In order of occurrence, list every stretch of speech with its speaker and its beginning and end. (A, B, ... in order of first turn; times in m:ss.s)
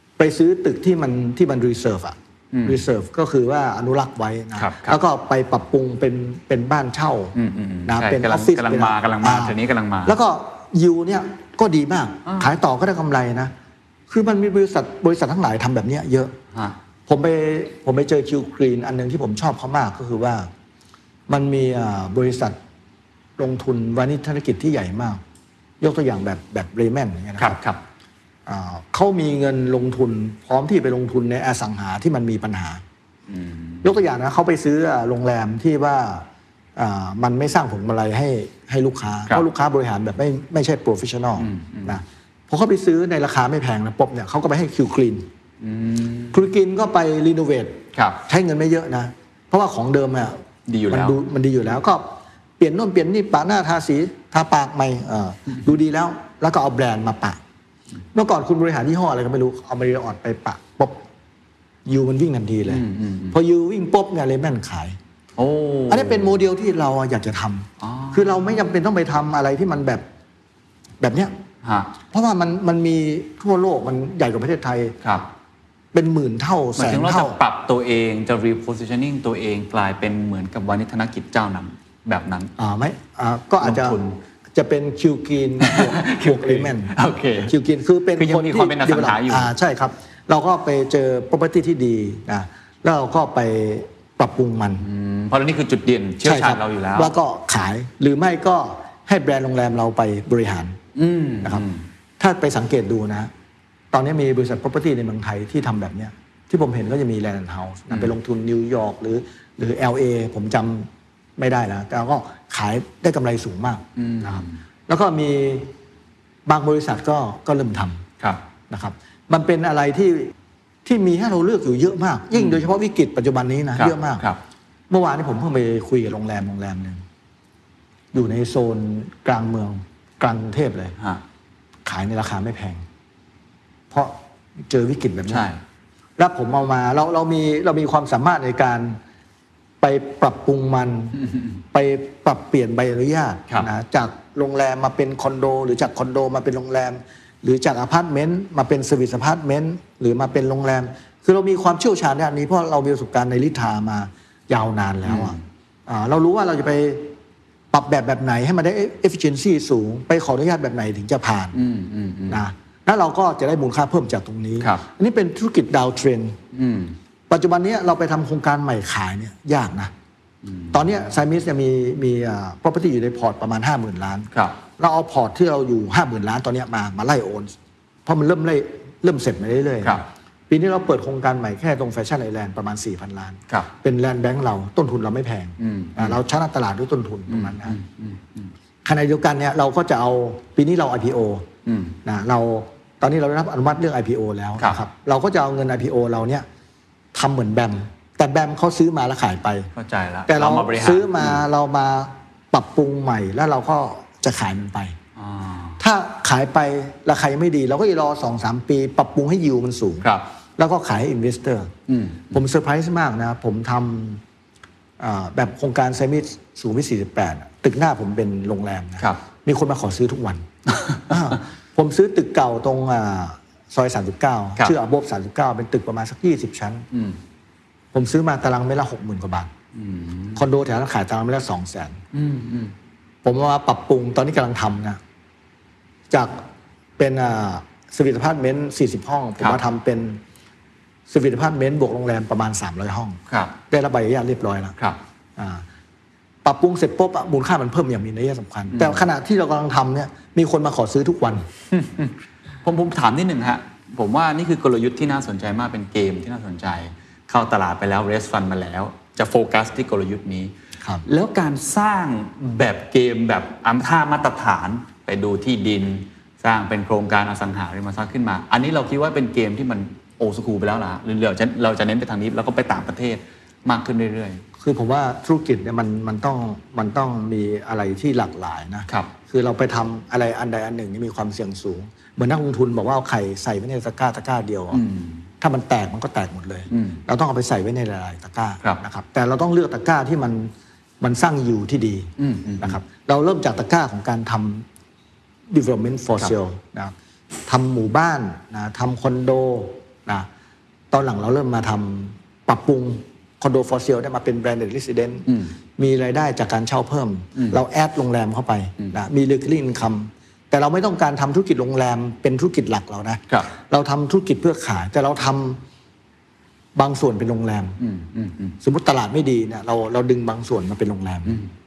0:00.2-0:07.3 A
0:02.5-0:02.8 B
0:04.6-0:05.0 B
0:07.3-0:10.2 B
0:07.8-0:13.5 A
0:14.1-0:16.3 A
0:17.1-0:20.5 A
0:21.3-0:22.6 A
0:23.4-0:25.2 A
0:25.8-0:27.6 A
0:27.4-0:27.8 B
0:28.4-0:32.8 A
0:33.3-0:33.9 B
0:33.8-0:45.3 A
0:41.4-0:42.0 B
0:45.6-0:46.4 B
0:46.3-0:57.4 A
0:47.9-0:48.2 B
0:50.7-0:51.2 B
0:58.1-1:01.0 A
1:01.8-1:05.0 A
1:02.7-1:03.4 B
1:05.4-1:06.3 B
1:05.9-1:10.0 A
1:07.8-1:08.4 B
1:11.0-1:11.3 A
1:11.6-1:11.9 B
1:12.1-1:15.0 A
1:15.0-1:15.3 B
1:15.9-1:17.4 A
1:16.8-1:22.5 B
1:22.6-1:24.0 A
1:23.6-1:24.2 B
1:24.5-1:34.8 A
1:25.6-1:27.5 B
1:28.2-1:29.5 B
1:34.8-1:37.1 B
1:36.2-1:40.8 A
1:41.0-1:41.8 B
1:42.2-1:43.3 A
1:43.9-1:55.7 A
1:54.0-1:54.6 B
1:56.4-1:58.0 A
1:58.7-2:00.3 A
2:00.8-2:04.2 A
2:02.3-2:02.6 B
2:03.8-2:04.4 B
2:04.9-2:07.0 A
2:08.1-2:11.0 A
2:11.8-2:12.8 A
2:14.7-2:15.5 A
2:15.3-2:15.6 B
2:16.2-2:19.0 A
2:19.8-2:21.2 A
2:21.2-2:21.5 B
2:21.7-2:35.4 A
2:35.0-2:35.4 B
2:35.9-2:37.1 A
2:37.7-2:41.6 A
2:41.5-2:42.4 B
2:42.3-2:46.4 A
2:46.5-2:47.0 B
2:47.3-2:49.9 A
2:50.4-2:50.9 B
2:50.7-2:57.5 A
2:54.3-2:54.6 B
2:58.0-3:07.8 A
3:05.6-3:06.2 B
3:07.3-3:08.5 B
3:08.8-3:11.4 A
3:11.6-3:12.0 B
3:12.0-3:16.4 A
3:17.1-3:19.7 A
3:19.7-3:21.4 B
3:20.3-3:24.9 A
3:25.2-3:25.8 B
3:25.8-3:30.0 A
3:30.6-3:31.7 A
3:31.9-3:32.3 B
3:32.3-3:34.2 A
3:35.0-3:40.4 A
3:40.7-3:41.0 B
3:41.1-3:46.9 A
3:46.9-3:47.2 B
3:47.9-3:49.5 A
3:49.7-3:50.4 B
3:50.3-3:52.0 A
3:52.1-3:52.7 B
3:53.2-3:55.0 A
3:56.1-3:56.4 A
3:57.0-4:00.2 A
4:01.1-4:03.2 A
4:03.3-4:03.5 B
4:03.7-4:04.7 A
4:05.4-4:05.6 A
4:06.4-4:11.4 A
4:08.7-4:09.0 B
4:11.7-4:12.1 B
4:12.6-4:20.5 B
4:21.0-4:34.4 B
4:34.6-4:44.8 A
4:44.7-4:45.2 B
4:45.4-4:54.6 A
4:46.7-4:47.0 B
4:52.2-4:52.8 B
4:55.5-4:56.9 A
4:57.5-5:00.3 A
5:00.9-5:15.6 A
5:05.3-5:05.6 B
5:16.7-5:17.8 A
5:17.8-5:18.6 B
5:18.6-5:21.4 A